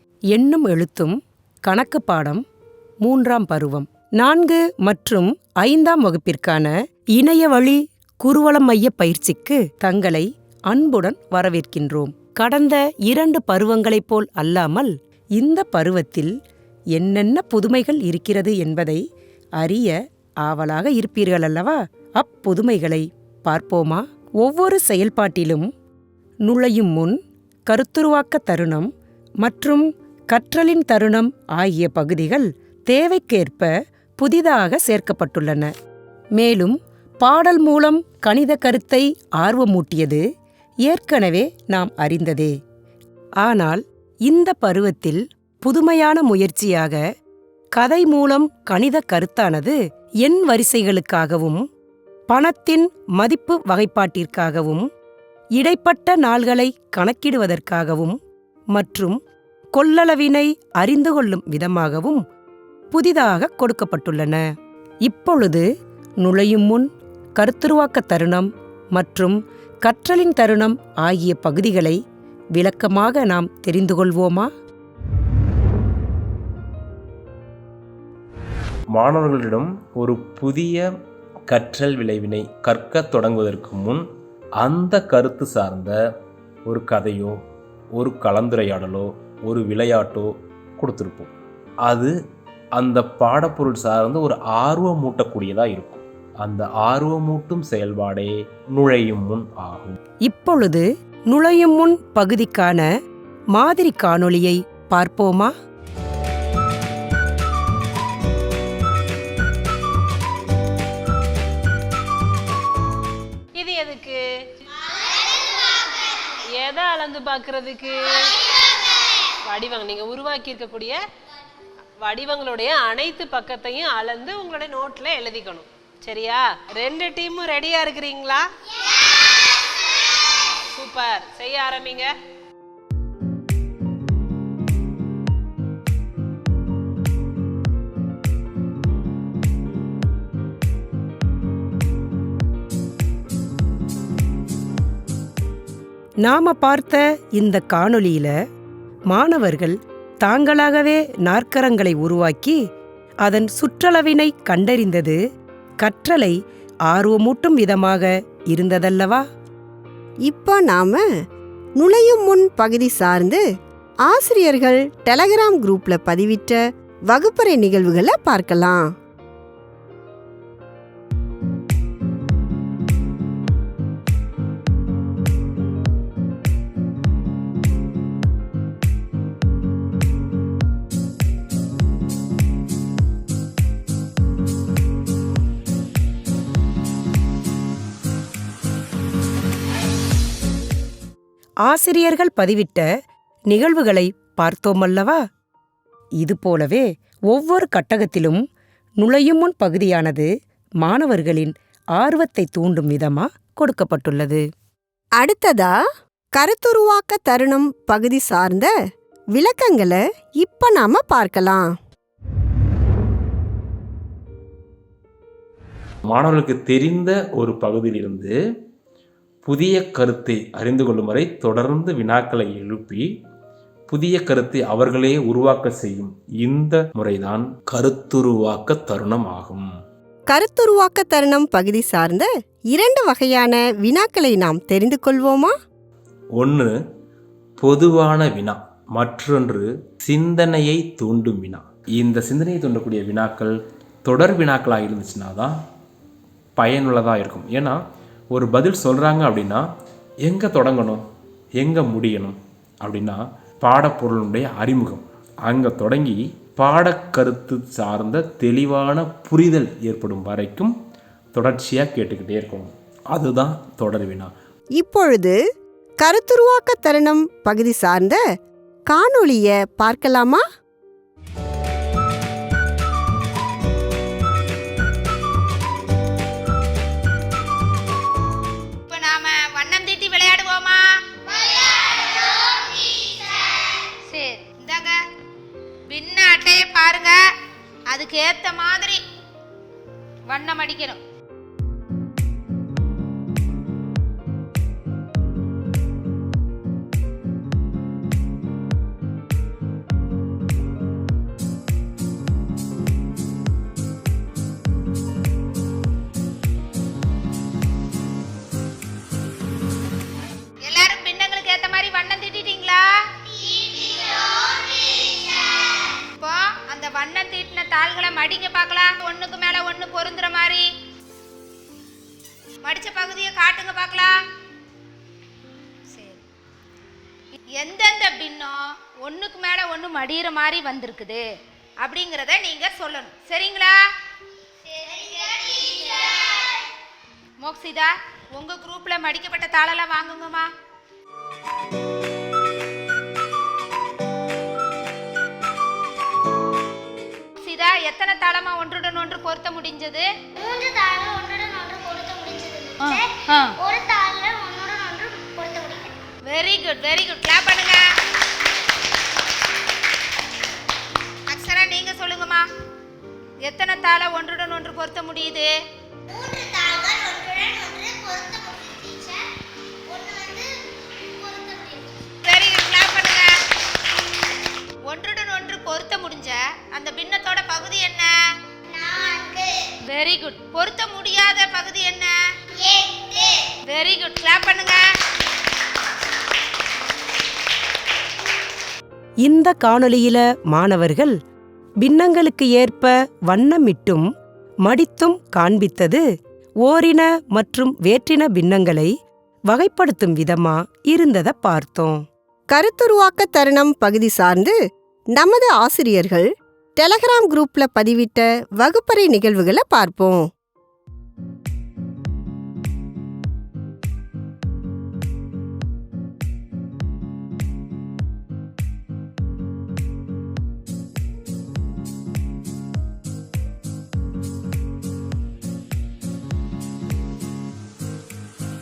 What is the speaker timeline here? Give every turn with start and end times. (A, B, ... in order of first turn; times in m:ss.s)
0:00.3-0:02.4 A
0:03.0-0:16.3 A
0:16.9-0:19.0 A
0:19.6-0:25.7 A
0:26.4-0:28.9 A
0:29.4-0:35.7 A
0:36.4-0:40.2 A
0:40.9-0:42.5 A
0:43.4-0:47.0 A
0:47.7-0:51.6 A
0:52.3-0:54.8 A
0:55.6-0:58.2 A
0:58.7-0:59.2 A
0:59.7-1:02.2 A
1:02.9-1:04.4 A
1:05.0-1:05.6 A
1:06.2-1:12.0 A
1:12.6-1:14.5 A
1:18.9-1:20.8 B
1:21.5-1:24.0 B
1:24.6-1:26.0 B
1:26.7-1:27.4 B
1:28.0-1:31.3 B
1:31.8-1:32.1 B
1:32.8-1:40.0 B
1:40.2-1:42.8 A
1:43.5-1:45.5 A
1:53.5-1:54.2 C
1:56.6-1:58.2 C
1:59.4-2:01.0 C
2:02.0-2:08.4 C
2:10.7-2:12.1 C
2:26.2-2:28.3 A
2:29.1-2:32.6 A
2:33.2-2:35.2 A
2:35.8-2:36.3 A
2:36.9-2:39.2 A
2:40.3-2:41.0 D
2:41.8-2:43.4 D
2:44.0-2:46.6 D
2:47.1-2:48.8 D
3:11.6-3:12.9 A
3:13.5-3:15.2 A
3:16.2-3:18.4 A
3:19.0-3:20.3 A
3:20.8-3:24.4 A
3:25.2-3:25.7 D
3:26.3-3:28.7 D
3:29.3-3:31.6 D
3:36.1-3:38.3 B
3:39.4-3:43.0 B
3:43.9-3:49.7 B
3:50.3-3:55.5 D
3:56.4-3:56.7 B
3:57.6-4:03.5 B
4:04.0-4:05.5 B
4:06.6-4:07.8 B
4:08.3-4:09.6 B
4:10.2-4:11.0 B
4:11.6-4:20.7 B
4:21.3-4:24.3 B
4:24.8-4:25.3 D
4:26.0-4:28.2 D
4:28.9-4:30.4 D
4:38.9-4:40.9 E
4:44.0-4:45.0 E
4:45.9-4:47.2 E
4:47.9-4:49.0 E
4:50.3-4:51.0 E
5:10.6-5:12.9 E
5:16.2-5:20.7 E
5:22.6-5:24.2 E
5:25.9-5:26.2 E
5:27.5-5:31.2 E
5:31.8-5:33.8 E
5:34.8-5:36.1 E
5:37.4-5:40.5 E
5:47.4-5:50.1 E
5:50.4-5:55.9 F
5:52.8-5:53.5 E
5:56.2-5:57.8 E
6:01.3-6:02.4 E
6:03.4-6:05.5 E
6:06.7-6:08.6 F
6:11.3-6:11.6 F
6:12.2-6:13.3 E
6:14.9-6:18.2 E
6:19.9-6:22.1 E
6:23.7-6:24.8 E
6:29.2-6:31.2 A
6:31.8-6:34.0 A
6:34.6-6:36.0 A
6:36.6-6:38.9 A
6:39.5-6:42.0 A
6:42.5-6:44.5 D
6:45.2-6:50.3 D